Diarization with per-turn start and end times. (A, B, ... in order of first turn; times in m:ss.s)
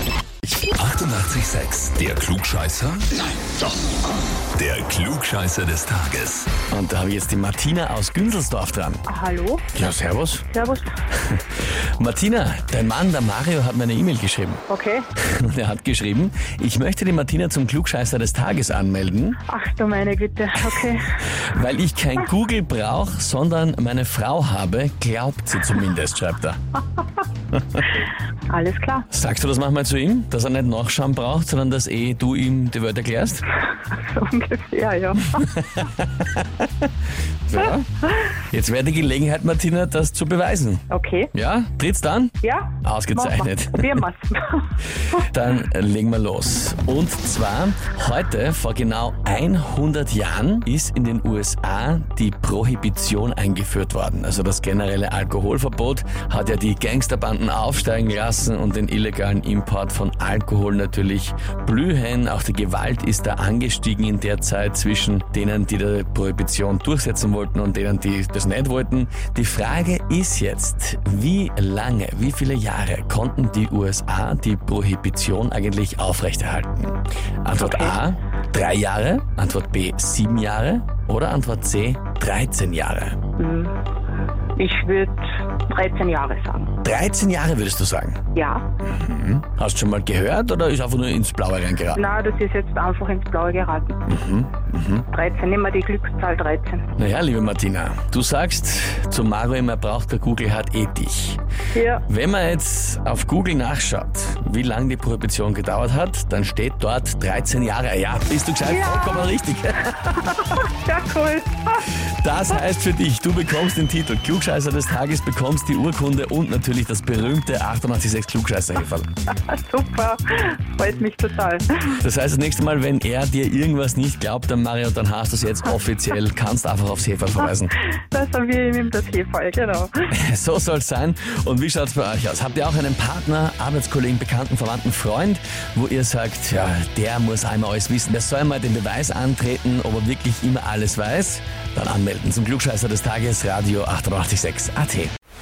0:00.7-0:03.1 A
0:04.6-0:06.5 A
0:06.7-0:09.0 B
0:09.1-0:09.7 C
0:09.7-0:10.5 B
0:10.5-0:10.9 C
0:12.0-0:14.6 B
0:14.7-0:15.1 C
0:15.2-0:19.4 B
0:19.5-0:21.1 C
0:21.5-0:26.6 B
0:28.5-0:29.1 C
0:29.1-0:33.4 B
0:33.9-0:35.5 C
0:35.4-0:36.9 B
0:37.5-0:44.0 B
0:40.9-0:41.3 C
0:42.4-0:44.7 C
0:45.1-1:23.2 B
1:17.6-1:18.0 C
1:23.4-1:23.7 C
1:24.6-1:26.7 C
1:26.8-1:28.2 B
1:28.3-1:28.7 C
1:28.8-1:32.0 B
1:31.9-1:34.0 C
1:34.1-1:35.1 B
1:35.1-1:36.9 C
1:37.0-1:41.4 B
1:41.8-1:42.0 C
1:42.1-1:50.5 B
1:48.6-1:49.3 C
1:50.3-1:51.9 C
1:52.2-1:59.1 B
1:59.4-2:01.9 C
2:01.8-2:07.8 B
2:08.0-2:10.1 C
2:10.1-2:25.1 B